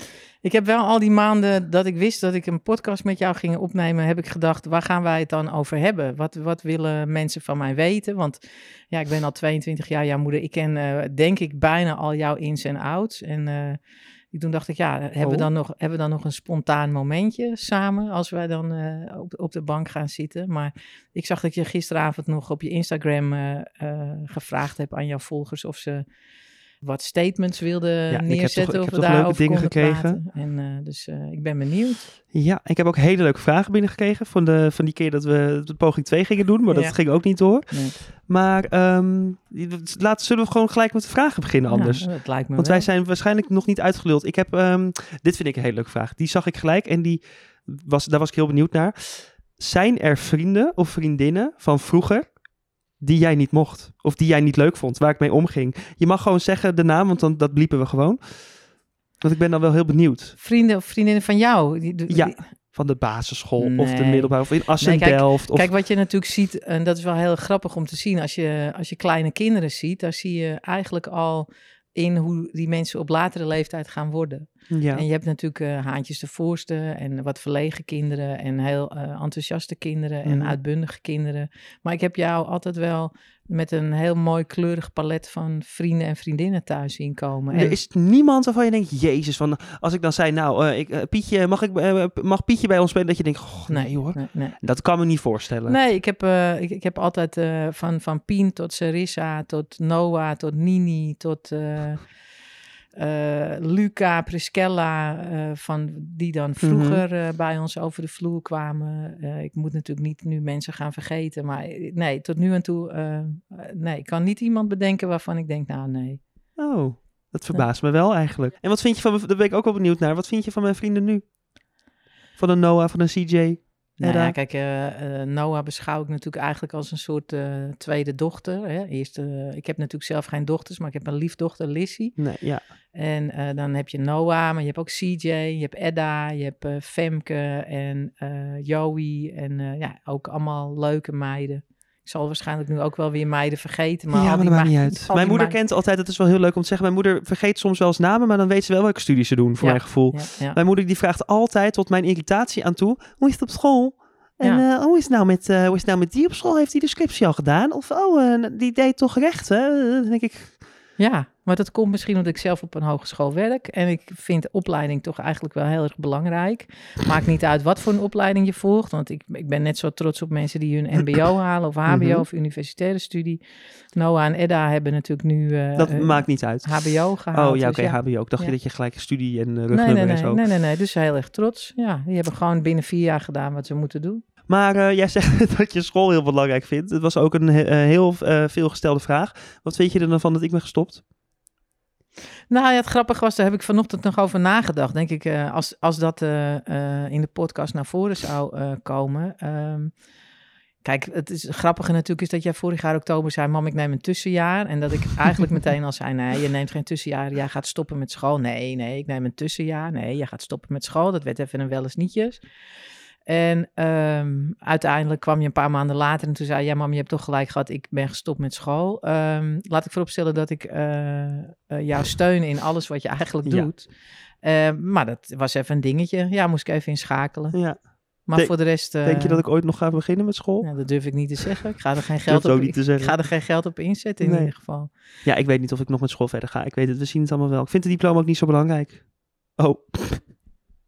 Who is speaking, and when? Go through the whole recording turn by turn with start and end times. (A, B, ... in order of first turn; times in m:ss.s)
0:00.4-0:13.8 A
0:14.3-0:26.0 A
0:15.2-0:15.5 B
0:26.8-0:32.1 A
0:28.1-0:30.2 B
0:32.3-0:52.3 B
0:36.7-0:37.0 A
0:37.7-0:38.0 A
0:41.7-0:42.9 A
0:53.0-0:58.4 B
0:59.2-1:00.4 B
1:00.4-1:02.4 A
1:02.1-1:05.7 B
1:03.6-1:27.8 A
1:14.7-1:15.0 B
1:20.2-1:20.5 B
1:27.5-1:35.8 B
1:33.7-1:34.6 A
1:35.6-1:42.1 A
1:42.9-1:56.2 A
1:46.6-1:47.0 B
1:56.6-2:01.3 B
2:02.4-2:04.3 B
2:04.0-2:12.2 A
2:12.2-2:12.7 B
2:12.9-2:25.6 A
2:24.1-2:40.6 B
2:29.6-2:30.6 A
2:41.0-2:53.4 A
2:51.9-2:52.2 B
2:53.9-2:58.5 A
2:55.8-2:56.7 B
2:57.3-3:00.4 B
2:59.7-3:04.2 A
3:04.5-3:11.0 B
3:12.5-3:19.9 A
3:20.8-3:32.4 A
3:33.2-3:43.9 A
3:44.4-3:47.6 A
3:47.5-3:50.7 B
3:48.2-3:49.4 A
3:50.6-3:54.9 A
3:52.3-3:53.1 B
3:54.2-3:54.5 B
3:55.2-3:59.0 B
3:59.6-4:00.3 B